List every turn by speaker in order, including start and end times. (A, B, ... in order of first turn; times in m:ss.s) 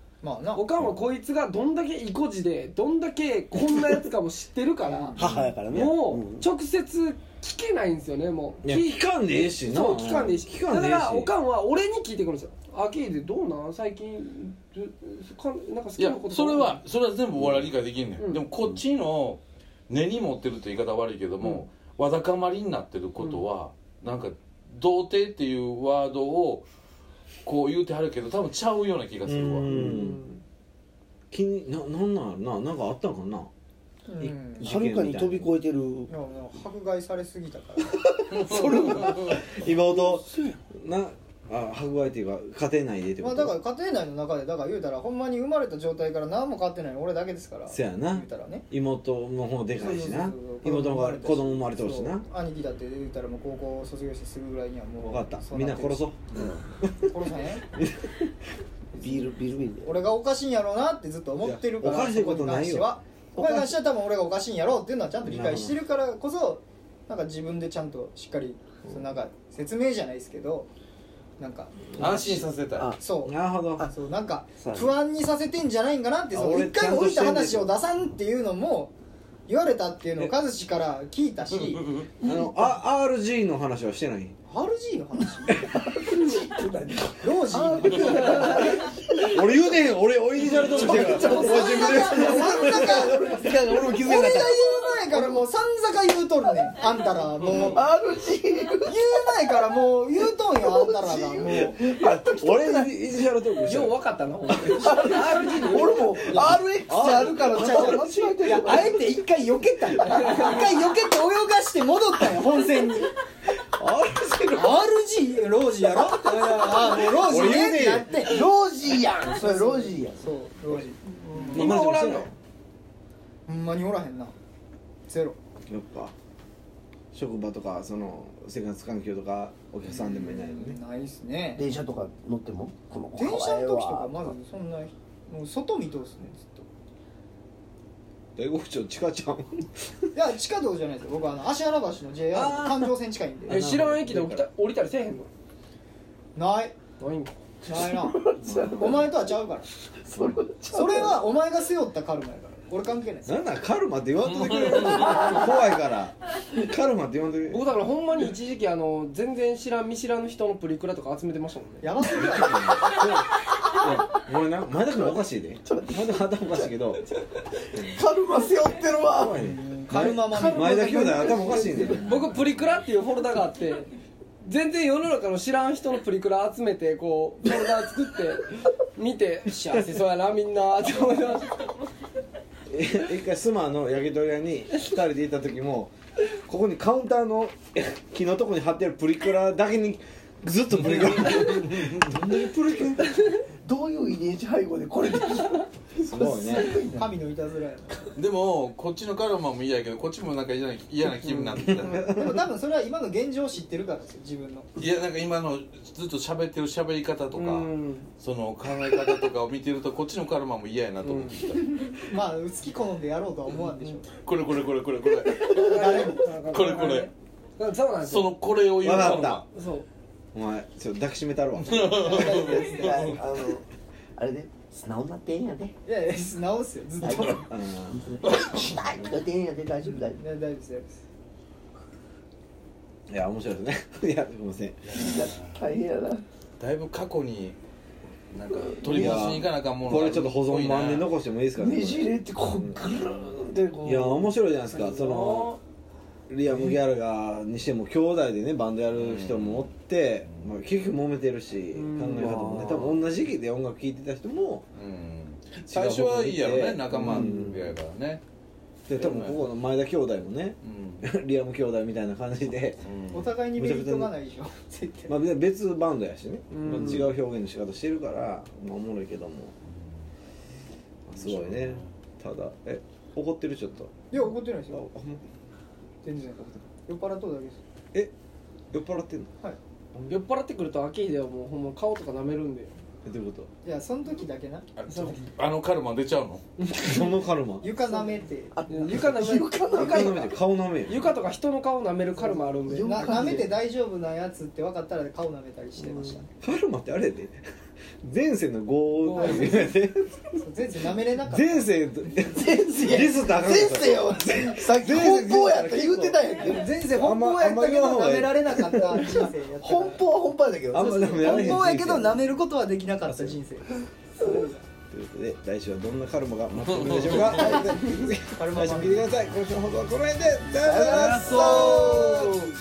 0:00.2-0:00.7 A
0:00.5-0:05.2 B
0:05.0-0:06.5 C
0:05.2-0:05.5 D
0:05.7-0:16.8 B
0:08.6-0:11.3 D
0:16.0-0:26.7 E
0:17.4-0:17.7 D
0:18.2-0:18.4 B
0:27.4-0:29.7 E
0:29.3-0:30.2 D
0:29.7-0:30.4 C
0:31.3-0:33.5 D
0:34.1-0:34.7 A
0:34.2-0:35.5 D
0:34.6-0:36.1 C
0:36.1-0:38.0 A
0:37.8-0:39.5 C
0:38.4-0:39.4 E
0:38.8-0:43.5 D
0:40.0-0:40.6 C
0:43.2-0:48.6 A
0:47.7-0:52.3 D
0:49.7-0:56.1 A
0:55.0-0:57.1 D
0:57.0-0:57.6 A
0:57.8-0:58.3 D
0:59.0-1:00.0 C
0:59.8-1:10.7 A
1:01.4-1:02.9 D
1:03.4-1:03.8 C
1:05.2-1:05.8 D
1:11.4-1:12.5 A
1:11.9-1:12.9 E
1:13.0-1:18.9 A
1:13.2-1:13.9 D
1:14.6-1:14.9 C
1:16.3-1:17.8 D
1:19.5-1:22.0 A
1:21.7-1:22.0 E
1:22.2-1:22.5 C
1:22.2-1:24.4 D
1:24.5-1:25.7 A
1:25.4-1:29.5 C
1:27.2-1:28.9 A
1:29.2-1:33.1 D
1:30.6-1:35.4 C
1:30.8-1:37.9 A
1:37.5-1:39.1 C
1:38.8-1:41.8 A
1:40.6-1:42.9 C
1:41.8-1:44.0 D
1:43.6-1:46.2 B
1:44.7-1:49.1 C
1:45.8-1:53.2 A
1:46.9-1:48.9 D
1:50.2-1:50.6 B
1:53.8-1:54.8 D
1:54.5-1:58.5 A
1:56.2-1:58.2 D
1:58.2-2:00.2 C
1:59.0-2:01.7 A
2:01.2-2:02.3 B
2:01.5-2:02.3 D
2:03.5-2:04.4 A
2:05.1-2:05.4 A
2:05.7-2:06.1 D
2:07.1-2:10.8 D
2:09.9-2:11.7 A
2:11.6-2:14.3 C
2:13.2-2:16.7 A
2:18.4-2:20.1 D
2:20.1-2:23.6 A
2:22.3-2:22.9 D
2:23.4-2:24.5 D
2:23.5-2:25.3 B
2:26.4-2:26.8 A
2:27.0-2:27.3 B
2:27.7-2:29.1 C
2:27.7-2:29.7 A
2:30.0-2:31.2 C
2:30.7-2:33.3 A
2:33.3-2:37.6 D
2:34.3-2:35.3 E
2:35.0-2:35.5 C
2:37.5-2:42.0 B
2:41.8-2:43.1 A
2:42.2-2:47.1 D
2:45.7-2:46.7 C
2:47.6-2:49.4 C
2:49.1-2:52.4 D
2:49.4-2:52.0 A
2:50.2-2:52.0 C
2:51.9-2:53.9 B
2:54.4-3:01.8 B
3:02.7-3:13.1 D
3:10.8-3:12.2 E
3:13.1-3:13.4 B
3:13.4-3:17.1 C
3:15.4-3:15.6 B
3:16.0-3:16.9 D
3:16.5-3:18.1 A
3:18.2-3:22.2 E
3:21.7-3:22.3 D
3:22.0-3:24.7 A
3:24.8-3:31.9 E
3:27.3-3:28.1 B
3:31.0-3:31.4 B
3:31.8-3:34.1 A
3:34.2-3:37.1 E
3:35.4-3:38.3 B
3:35.6-3:36.3 A
3:38.0-3:39.4 E
3:38.8-3:39.4 D
3:38.9-3:39.9 B
3:40.3-3:43.0 D
3:41.7-3:43.1 E
3:41.8-3:43.2 A
3:42.6-3:43.6 C
3:44.2-3:45.7 C
3:45.8-3:47.5 A
3:47.0-3:47.4 C
3:47.1-3:48.0 D
3:47.9-3:50.2 C
3:50.2-3:50.9 A
3:53.1-3:55.0 D
3:54.9-3:56.2 C
3:54.9-3:55.6 E
3:56.6-3:57.6 E
3:58.3-4:01.1 E
3:58.5-3:59.3 C
3:58.9-4:02.9 D
4:01.6-4:04.3 C
4:03.8-4:05.5 D
4:04.7-4:05.6 B
4:06.3-4:14.6 D
4:08.9-4:09.7 E
4:11.7-4:12.3 B
4:12.0-4:12.9 C
4:14.8-4:18.2 E
4:15.7-4:17.7 D
4:17.0-4:17.6 C
4:18.9-4:22.8 D
4:19.0-4:19.4 E
4:20.6-4:21.1 E
4:22.8-4:23.3 E
4:23.1-4:25.1 A
4:23.5-4:24.1 D
4:25.1-4:29.5 D
4:26.5-4:27.1 B
4:31.1-4:33.9 D
4:31.2-4:31.9 E
4:34.1-4:34.8 A
4:34.7-4:35.2 D
4:36.0-4:37.6 A
4:38.7-4:39.3 D
4:39.9-4:40.2 D
4:40.1-4:42.8 B
4:43.0-4:43.5 D
4:43.6-4:44.6 A
4:44.8-4:46.4 E
4:44.9-4:45.2 B
4:46.6-4:47.1 B
4:46.7-4:47.7 D
4:47.6-4:48.6 A
4:48.0-4:50.3 C
4:48.7-4:50.3 B
4:49.7-4:51.1 D
4:50.8-4:53.4 B
4:52.7-4:53.6 C
4:52.8-4:56.3 A
4:56.4-4:57.4 D
4:58.0-5:00.4 D
4:59.0-4:59.7 B
4:59.2-4:59.7 A
5:00.4-5:01.7 A
5:01.3-5:06.3 D
5:02.2-5:06.7 C
5:06.3-5:10.0 A
5:06.8-5:09.0 D
5:08.9-5:11.6 C
5:10.7-5:12.2 D
5:10.7-5:13.7 A
5:13.0-5:13.4 D
5:14.2-5:14.5 B
5:14.9-5:22.3 D
5:16.7-5:17.6 E
5:17.2-5:18.1 C
5:18.4-5:19.1 A
5:20.5-5:22.3 C
5:21.0-5:22.1 B
5:21.0-5:22.4 A